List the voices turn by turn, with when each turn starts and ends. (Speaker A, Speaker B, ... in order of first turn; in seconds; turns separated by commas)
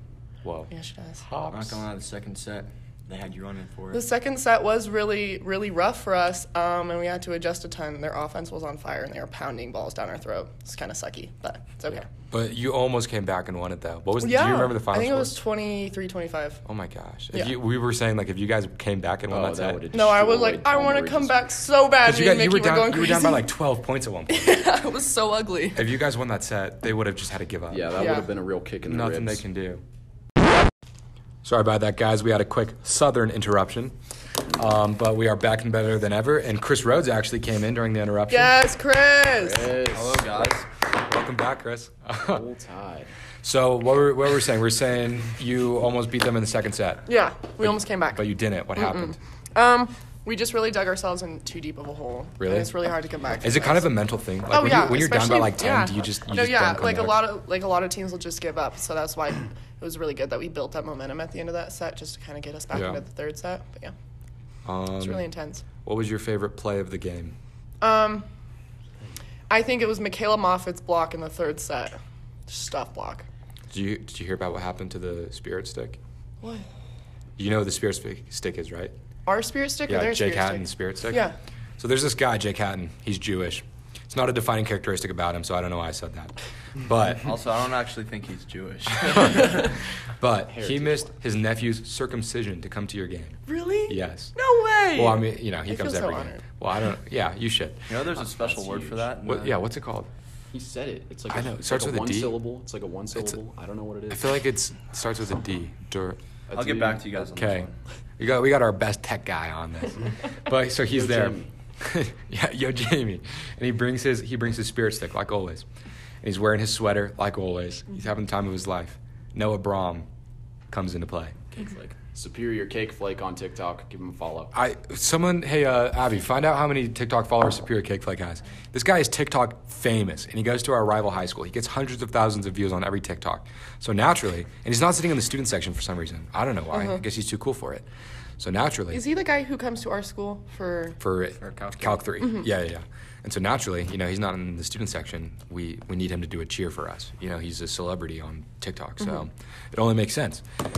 Speaker A: 0.4-0.7, Speaker B: 0.7-1.2, Speaker A: 1.2-1.8, Speaker C: 1.5-4.0, Speaker B: 3.9-12.1, Speaker A: 12.2-15.3, Speaker B: 14.2-16.6, Speaker A: 16.7-19.9, Speaker D: 19.3-21.3, Speaker B: 19.9-23.5, Speaker A: 22.0-24.6, Speaker B: 24.3-25.9, Speaker A: 25.8-28.0, Speaker D: 27.7-29.4, Speaker B: 28.0-28.3, Speaker A: 28.9-29.8, Speaker A: 31.4-34.0, Speaker A: 34.5-38.5, Speaker B: 38.3-39.7, Speaker D: 39.3-40.5, Speaker E: 39.9-40.7, Speaker A: 40.9-42.4, Speaker D: 42.2-43.1, Speaker A: 43.4-47.1, Speaker B: 47.1-53.9, Speaker A: 47.6-49.2, Speaker A: 52.4-52.7, Speaker A: 53.4-57.3, Speaker B: 54.5-63.9, Speaker A: 62.7-63.0, Speaker A: 64.7-65.2, Speaker B: 65.0-65.6, Speaker A: 65.8-67.3, Speaker B: 67.8-68.3, Speaker B: 69.5-73.3, Speaker A: 73.7-76.0, Speaker B: 76.4-76.7, Speaker A: 77.4-78.9, Speaker B: 79.3-81.3, Speaker A: 79.9-87.3, Speaker E: 87.2-89.8, Speaker A: 89.1-89.7, Speaker A: 90.2-94.3, Speaker D: 90.5-91.1, Speaker B: 93.5-96.4, Speaker A: 94.9-98.0, Speaker E: 97.9-99.5, Speaker D: 98.2-99.1, Speaker A: 99.2-100.1, Speaker D: 100.5-104.3, Speaker A: 101.3-102.4, Speaker A: 103.1-103.4, Speaker A: 104.1-106.2, Speaker D: 106.5-107.2, Speaker E: 106.5-107.7, Speaker A: 107.3-107.7, Speaker A: 108.2-115.7, Speaker D: 110.9-111.5, Speaker A: 116.2-120.1, Speaker A: 120.7-121.7, Speaker D: 122.2-124.5, Speaker A: 124.5-137.9, Speaker B: 136.7-137.0, Speaker A: 138.4-139.0, Speaker B: 138.9-141.0, Speaker A: 141.0-150.4, Speaker C: 141.4-142.1